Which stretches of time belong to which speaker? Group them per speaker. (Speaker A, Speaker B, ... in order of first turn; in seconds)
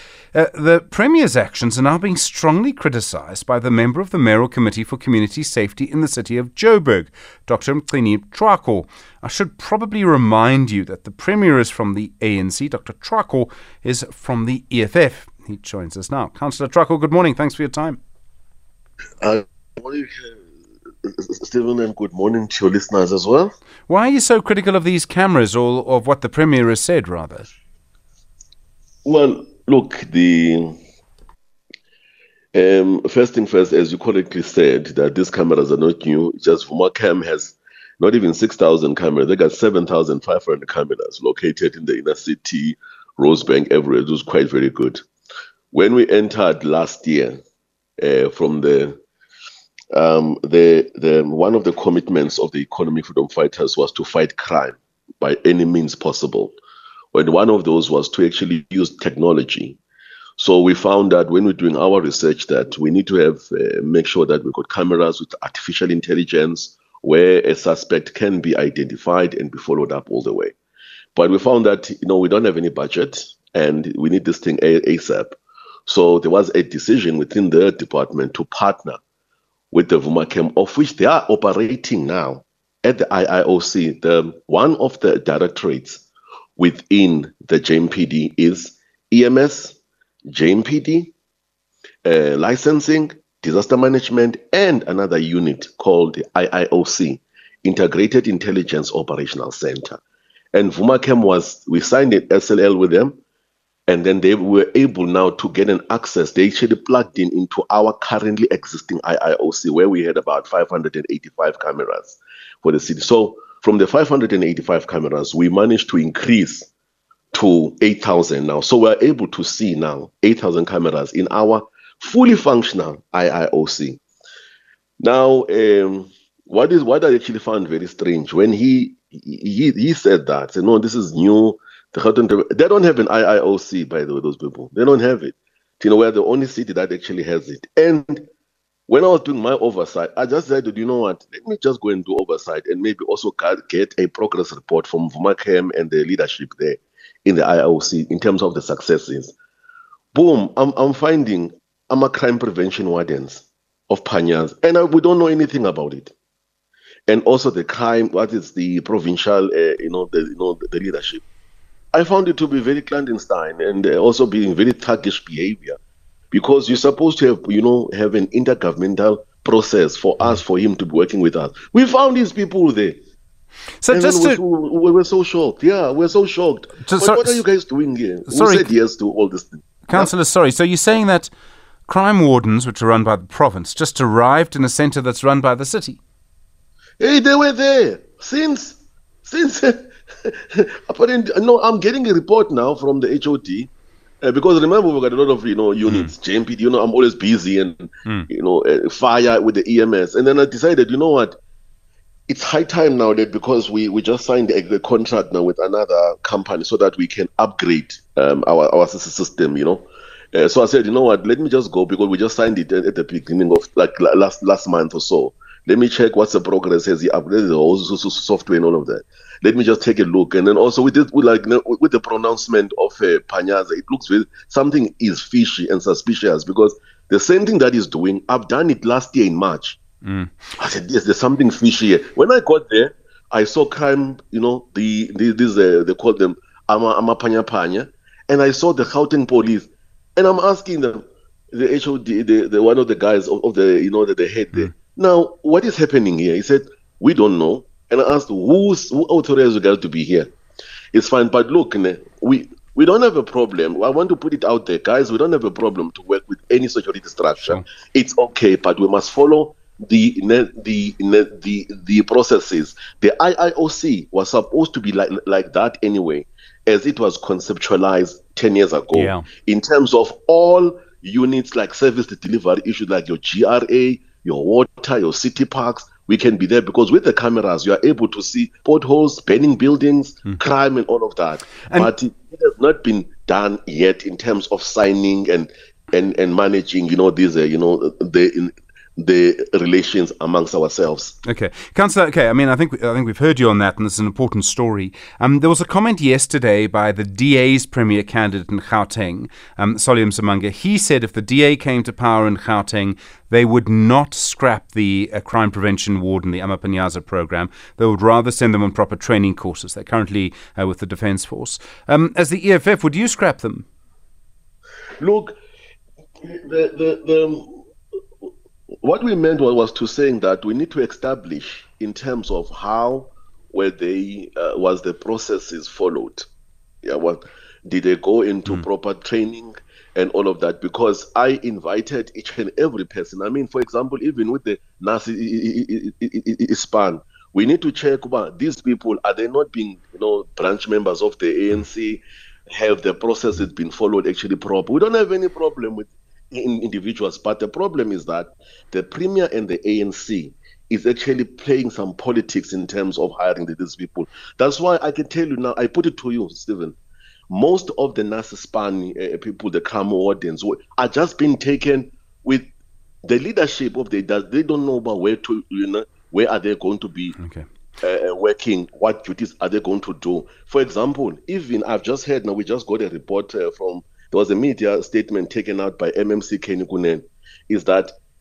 Speaker A: 0.3-18.0, 23.9-27.5, 173.8-174.4, 176.8-177.4, 178.3-178.7, 179.9-181.3, 181.9-186.0, 195.9-196.1, 230.0-230.5, 257.4-257.6, 268.9-269.3, 281.7-281.9, 291.2-313.7, 367.2-367.4
Speaker B: 19.2-20.5, 21.0-23.5, 29.1-30.8, 32.5-45.0, 45.7-47.4, 48.0-49.0, 49.9-56.5, 57.1-59.8, 60.4-70.5, 71.2-79.0, 79.7-86.0, 86.6-91.1, 92.0-100.0, 100.5-103.2, 103.9-116.7, 117.3-124.0, 125.0-138.3, 138.9-149.3, 150.1-156.1, 157.1-161.2, 161.9-165.8, 166.3-173.0, 173.9-180.1, 187.0-193.7, 194.2-201.4, 202.3-229.8, 230.6-250.3, 250.9-291.2, 315.0-315.4, 316.2-317.6, 318.8-326.3, 326.8-356.8, 357.3-362.5, 363.0-367.2, 367.8-377.9